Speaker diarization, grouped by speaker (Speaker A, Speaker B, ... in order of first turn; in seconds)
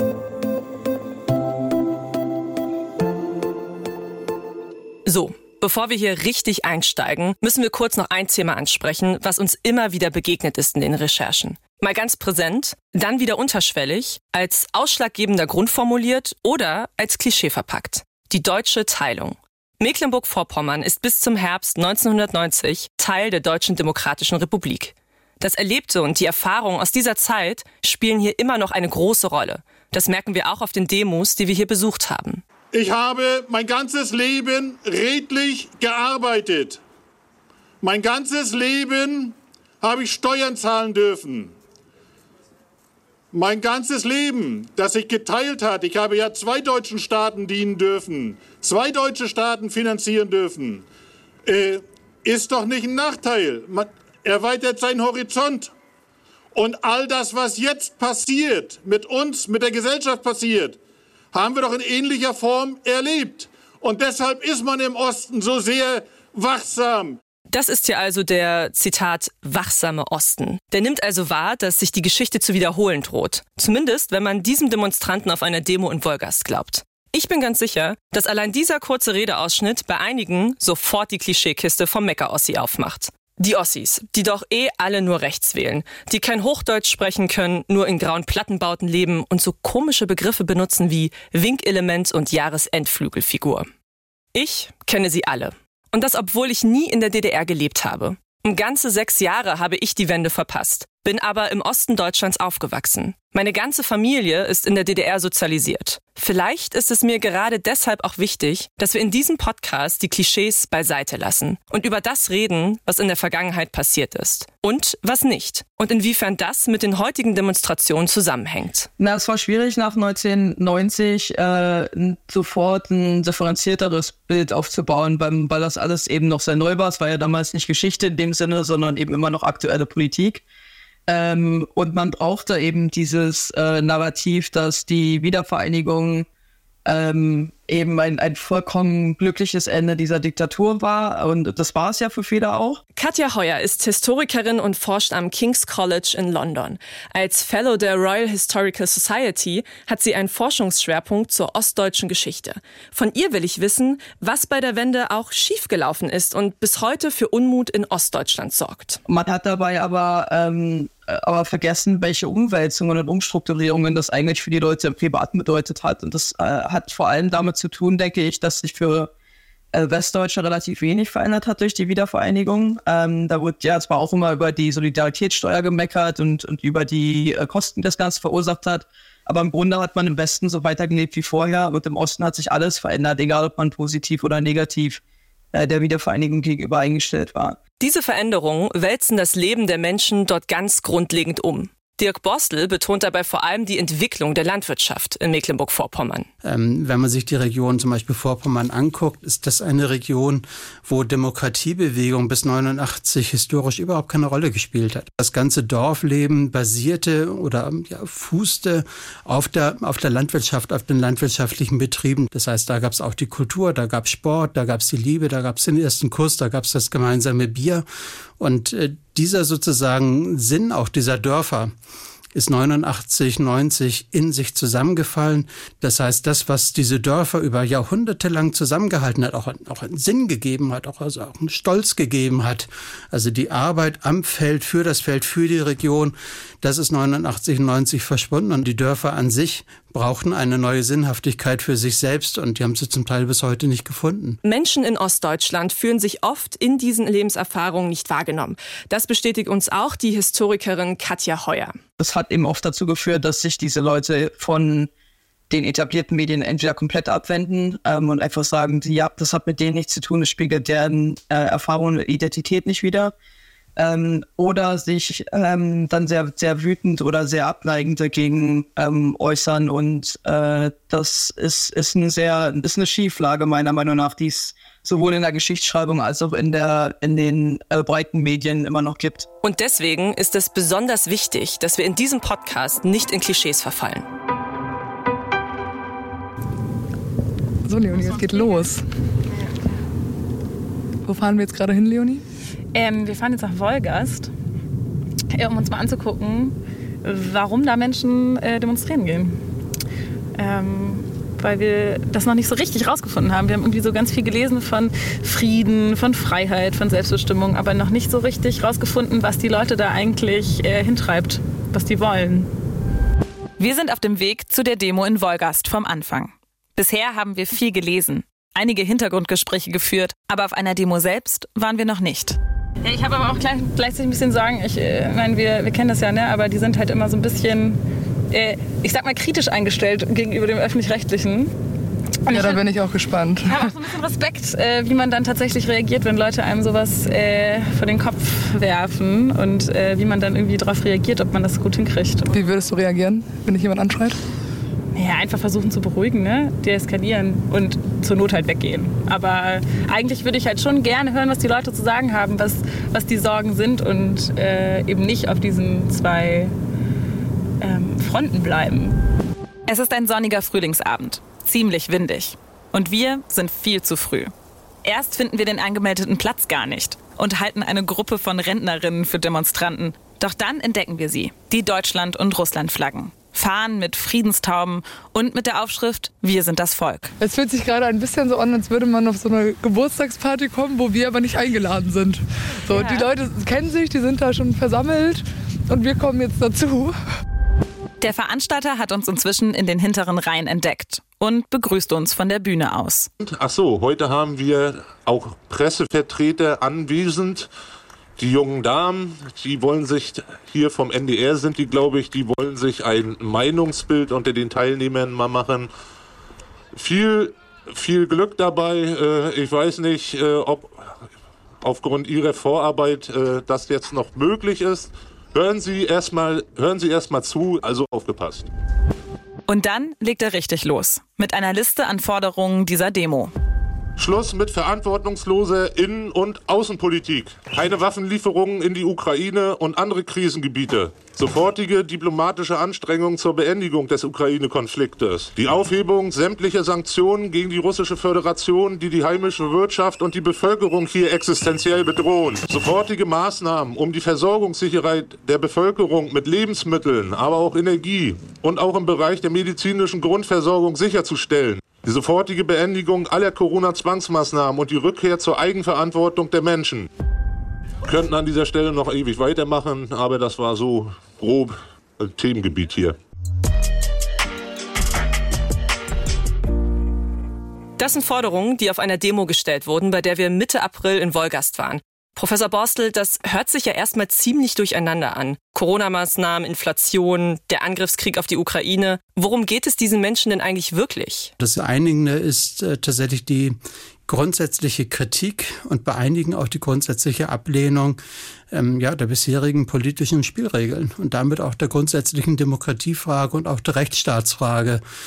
Speaker A: 5.0-32.4, 67.5-93.7, 94.3-118.9, 142.9-159.0, 187.8-196.3, 244.4-251.8, 279.4-284.1, 467.8-481.3
Speaker B: 32.7-36.8, 37.8-41.5, 43.3-50.8, 51.5-55.7, 56.5-60.8, 61.3-67.2
Speaker C: 119.0-130.4, 131.1-136.2, 136.8-142.8, 159.1-169.1, 169.7-185.0, 185.5-187.6, 252.0-254.9, 255.5-263.1, 263.8-279.3
Speaker D: 196.4-217.8, 218.4-221.7, 222.3-244.4, 481.4-488.0, 488.5-494.8
Speaker E: 287.6-288.8, 291.0-292.2, 332.3-333.6, 342.3-344.2, 377.2-386.9
Speaker F: 287.9-288.7, 292.7-294.3, 295.3-299.4, 300.4-312.5, 322.8-331.5, 332.3-332.7, 333.4-342.3, 344.9-356.5, 357.6-358.9
Speaker G: 313.6-322.4, 359.7-364.3, 364.8-377.1, 388.0-393.1, 419.5-423.3
Speaker H: 393.2-397.5, 398.2-405.7, 406.7-410.8, 411.6-418.5, 424.0-456.9, 457.9-462.9